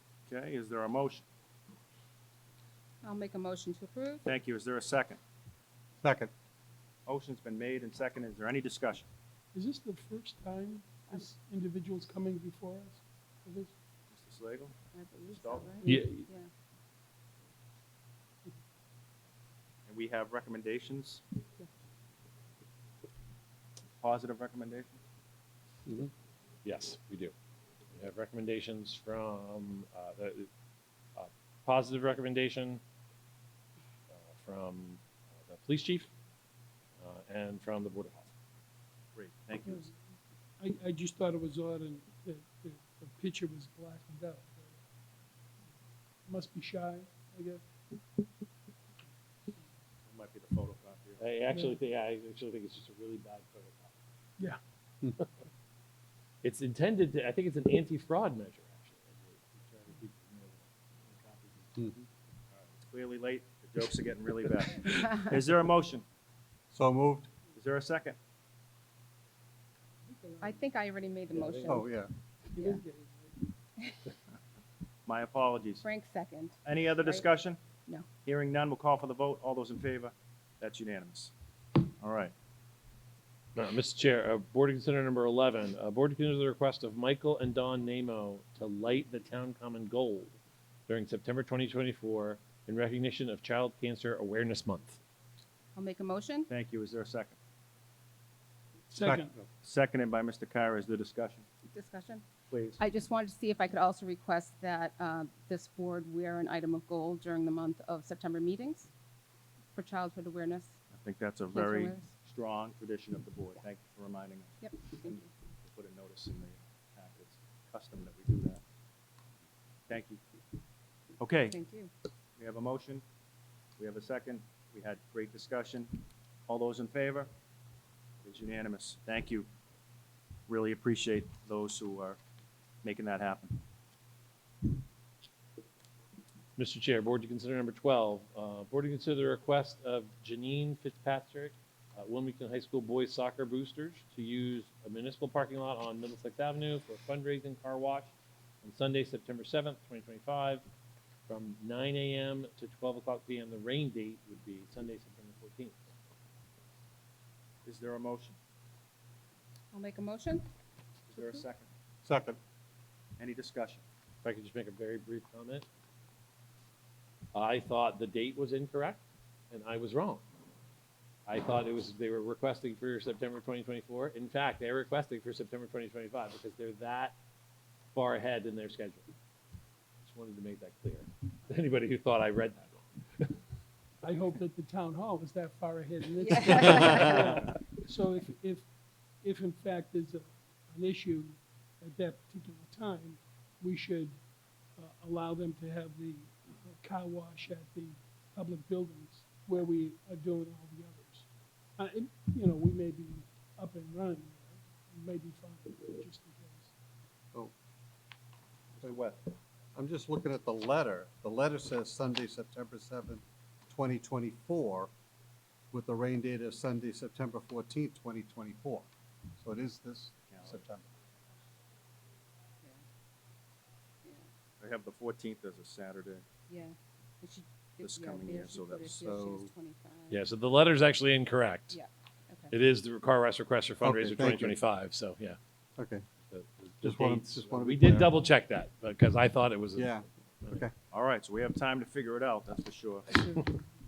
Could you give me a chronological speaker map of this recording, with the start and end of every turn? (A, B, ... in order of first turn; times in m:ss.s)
0:00.3-0:01.2 A
0:03.0-0:04.2 B
0:04.2-0:05.2 A
0:06.0-0:06.3 C
0:07.1-0:09.1 A
0:09.5-0:13.7 D
0:14.1-0:14.7 A
0:14.9-0:16.5 B
0:15.3-0:15.9 A
0:15.8-0:16.2 E
0:19.9-0:21.2 A
0:24.0-0:25.0 A
0:26.6-0:27.3 E
0:28.0-0:30.5 E
0:31.2-0:32.8 E
0:34.1-0:36.1 E
0:37.0-0:38.3 E
0:39.2-0:39.9 A
0:39.7-0:39.9 D
0:40.6-0:44.8 D
0:46.3-0:47.6 D
0:50.1-0:51.2 A
0:51.2-0:54.0 E
0:51.5-0:51.8 D
0:56.4-1:02.0 E
1:02.5-1:06.0 A
1:06.7-1:07.3 C
1:07.5-1:08.2 A
1:10.1-1:10.6 D
1:10.4-1:11.9 B
1:11.3-1:11.8 E
1:11.3-1:11.8 D
1:11.6-1:12.1 C
1:12.5-1:12.8 B
1:12.6-1:13.5 D
1:15.1-1:15.8 A
1:15.8-1:17.3 B
1:16.7-1:17.6 A
1:18.2-1:22.3 A
1:23.6-1:30.3 E
1:30.9-1:35.0 E
1:35.8-1:36.5 B
1:36.5-1:37.4 A
1:38.9-1:39.3 D
1:39.0-1:39.5 C
1:39.6-1:41.5 A
1:41.7-1:42.2 B
1:42.5-1:42.8 A
1:42.8-1:48.9 B
1:49.8-1:50.8 B
1:51.0-1:58.6 A
1:51.5-1:52.1 B
1:54.6-1:55.2 B
1:59.9-2:00.2 A
2:01.2-2:01.6 A
2:01.5-2:01.9 B
2:02.4-2:03.0 A
2:03.8-2:07.3 A
2:08.2-2:09.5 A
2:10.5-2:12.2 A
2:12.8-2:13.6 A
2:16.6-2:28.1 E
2:28.6-2:30.6 E
2:31.3-2:35.8 E
2:37.6-2:38.4 A
2:39.7-2:40.5 B
2:41.1-2:41.7 A
2:42.0-2:42.4 C
2:43.2-2:43.8 A
2:44.2-2:45.7 E
2:47.3-2:50.2 E
2:51.3-2:57.2 E
2:57.9-2:59.1 E
3:00.0-3:03.4 E
3:04.0-3:08.6 D
3:06.2-3:07.4 B
3:09.2-3:14.2 D
3:14.8-3:26.7 D
3:28.8-3:29.3 A
3:29.8-3:34.9 C
3:35.7-3:40.9 C
3:40.3-3:40.6 A
3:44.6-3:46.2 A
3:46.5-3:50.2 B
3:47.8-3:49.0 A
3:49.0-3:49.5 C
3:50.1-3:51.8 E
3:51.7-3:52.5 B
3:52.5-3:55.4 E
3:53.8-3:54.6 C
3:55.8-3:56.0 C
3:56.3-4:00.6 E
3:56.8-3:58.1 C
3:59.8-4:00.7 C
4:00.9-4:03.2 A
4:03.1-4:03.6 D